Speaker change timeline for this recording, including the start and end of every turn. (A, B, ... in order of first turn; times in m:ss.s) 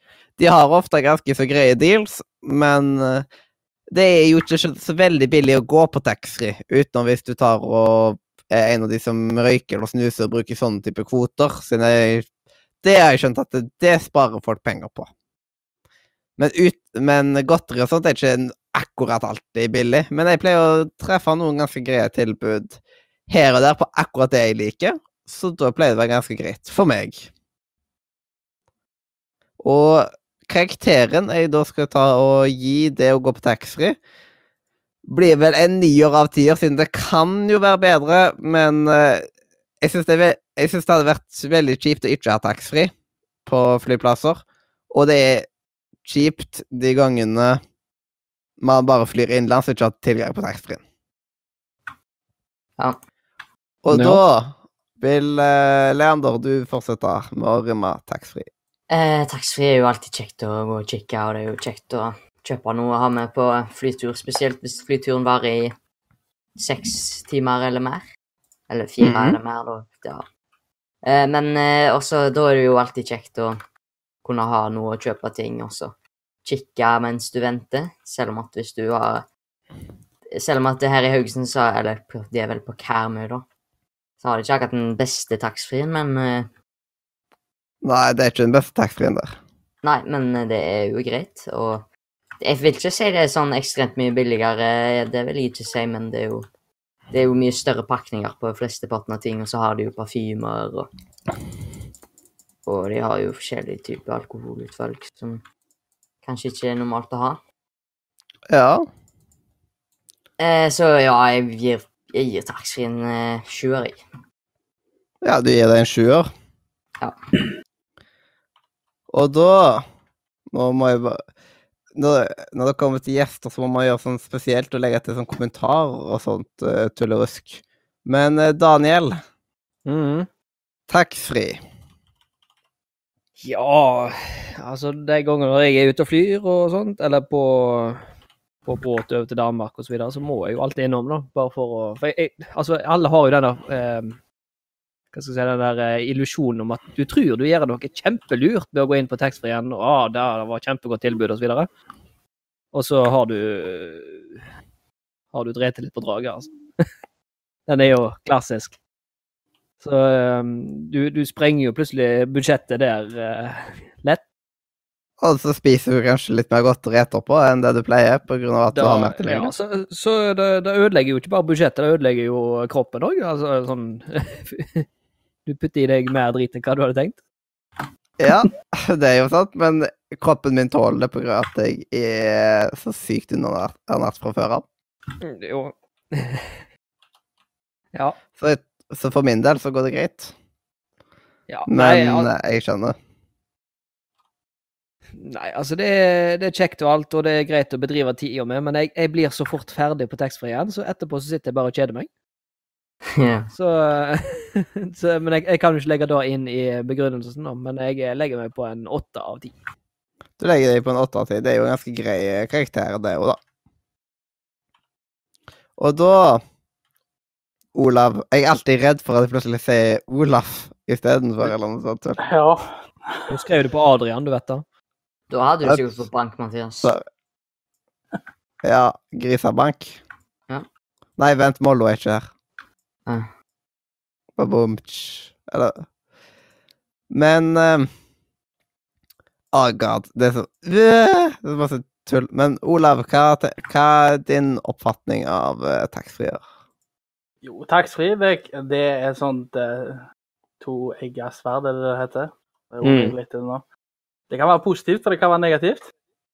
0:00.4-0:03.2 A
0:03.9-0:12.2 A
0:12.8-0:15.1 A
0:16.4-0:27.3 A
0:29.6-0:34.0 A
0:35.1-0:39.3 A
0:39.8-0:42.9 A
0:43.4-0:45.5 A
0:46.0-0:47.6 A
0:48.6-0:50.8 A
0:53.8-0:58.5 A
0:53.9-0:54.2 B
0:58.9-1:05.7 C
1:06.6-1:08.0 C
1:08.7-1:10.2 C
1:09.0-1:09.4 A
1:11.0-1:13.6 C
1:14.2-1:19.2 C
1:20.3-1:23.4 C
1:24.2-1:26.5 C
1:27.8-1:29.4 A
1:29.8-1:31.9 C
1:32.4-1:36.5 C
1:37.1-1:40.9 C
1:42.6-1:45.4 C
1:46.2-1:47.4 C
1:48.5-1:48.8 A
1:50.4-1:54.0 C
1:55.2-1:56.3 A
1:59.1-1:59.8 A
2:00.5-2:01.2 A
2:01.9-2:09.2 A
2:09.8-2:10.3 B
2:10.9-2:11.6 A
2:13.4-2:18.0 B
2:18.6-2:24.2 B
2:25.1-2:31.7 B
2:32.7-2:34.4 B
2:35.3-2:36.9 B
2:37.7-2:38.7 B
2:39.8-2:44.2 B
2:45.2-2:49.5 A
2:48.7-2:54.8 B
2:55.4-2:57.2 B
2:58.2-3:04.6 A
3:05.2-3:06.6 B
3:08.4-3:10.3 A
3:11.5-3:12.3 B
3:11.7-3:13.0 A
3:15.2-3:22.1 B
3:23.1-3:23.5 C
3:23.5-3:29.5 B
3:30.4-3:33.4 A
3:35.8-3:36.4 A
3:37.7-3:42.2 A
3:42.2-3:43.2 D
3:43.3-3:44.6 B
3:45.3-3:46.9 C
3:45.6-3:46.0 A
3:48.6-3:50.0 A
3:51.2-3:52.3 A
3:54.4-3:55.8 A
3:57.1-3:57.9 A
3:59.5-4:06.4 A
4:07.4-4:10.0 D
4:10.6-4:13.6 D
4:12.8-4:13.1 B
4:14.3-4:15.9 D